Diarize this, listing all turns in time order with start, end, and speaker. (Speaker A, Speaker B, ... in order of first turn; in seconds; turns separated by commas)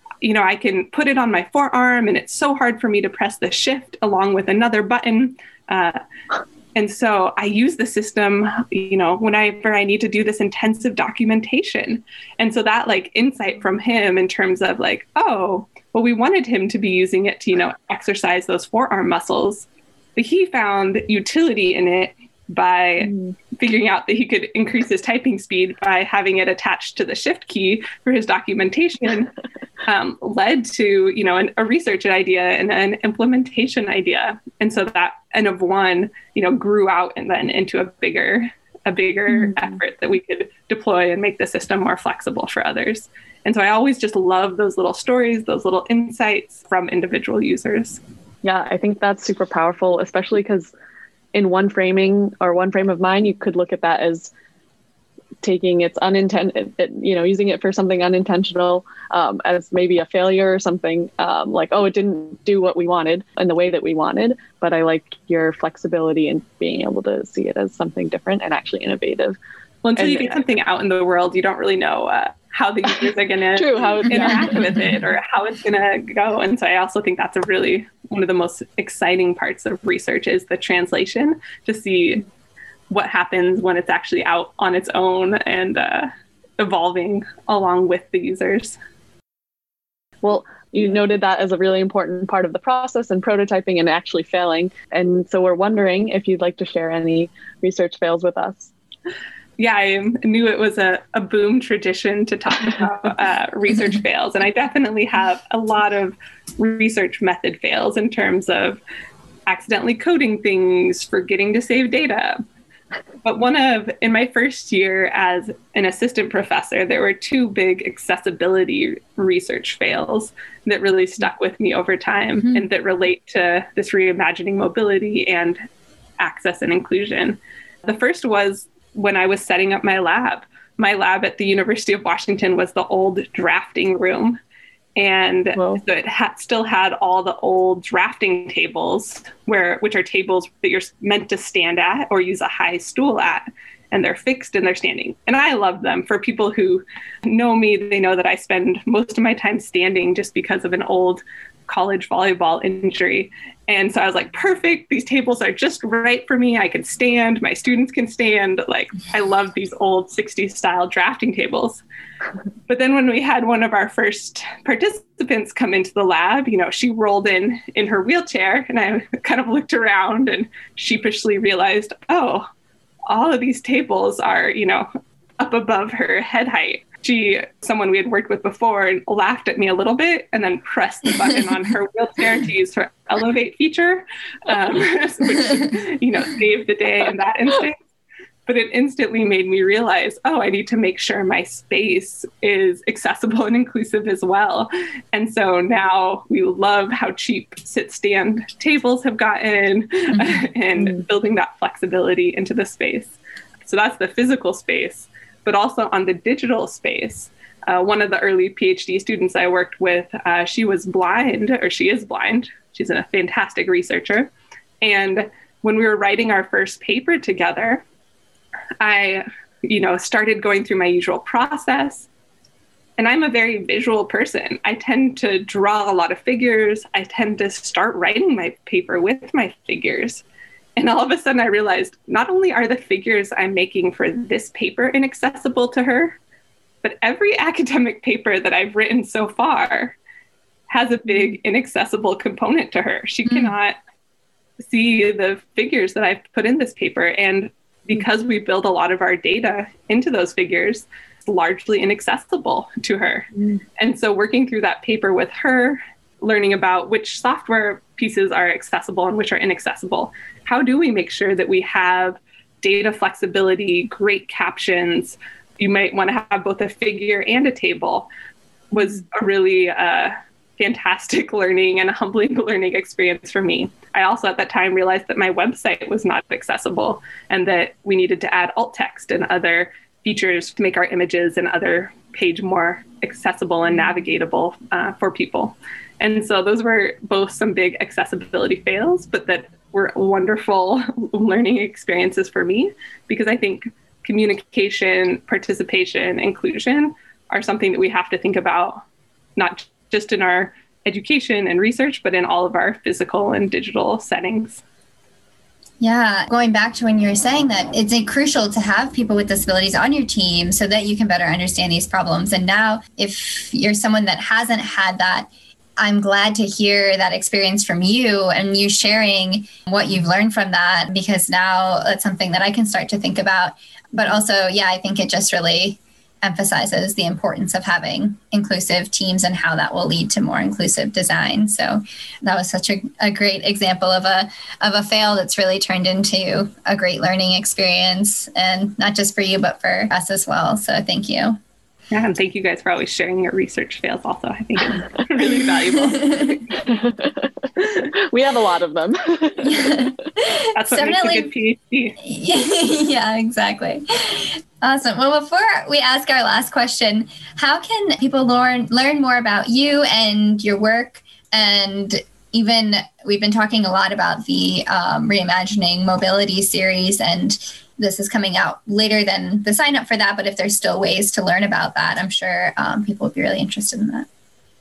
Speaker A: 0.2-6.0, Speaker A: 6.8-29.3, Speaker A: 29.9-48.0, Speaker B: 39.3-39.7, Speaker B: 48.4-50.7, Speaker B: 51.3-54.3, Speaker B: 55.4-69.4, Speaker A: 69.8-82.2, Speaker B: 70.0-70.4, Speaker B: 73.6-75.0, Speaker A: 82.9-88.8, Speaker B: 90.2-98.7, Speaker A: 99.6-108.8, Speaker A: 109.5-112.4, Speaker A: 113.2-125.6, Speaker A: 126.2-134.4, Speaker A: 134.9-161.8, Speaker B: 135.6-135.8, Speaker A: 162.7-172.5, Speaker A: 173.1-174.9, Speaker A: 175.4-187.8, Speaker A: 188.5-203.1, Speaker C: 200.1-200.4, Speaker A: 203.6-217.8, Speaker A: 218.8-222.1, Speaker A: 223.0-230.2, Speaker A: 230.8-236.2, Speaker A: 236.8-240.0, Speaker A: 240.7-243.8, Speaker A: 244.6-268.1, Speaker A: 268.7-298.8, Speaker A: 299.4-304.6, Speaker C: 305.8-341.4, Speaker A: 341.9-346.6, Speaker C: 345.7-346.4, Speaker B: 346.6-347.2, Speaker B: 347.8-349.9, Speaker C: 349.5-351.3, Speaker A: 350.6-352.0, Speaker C: 352.0-374.1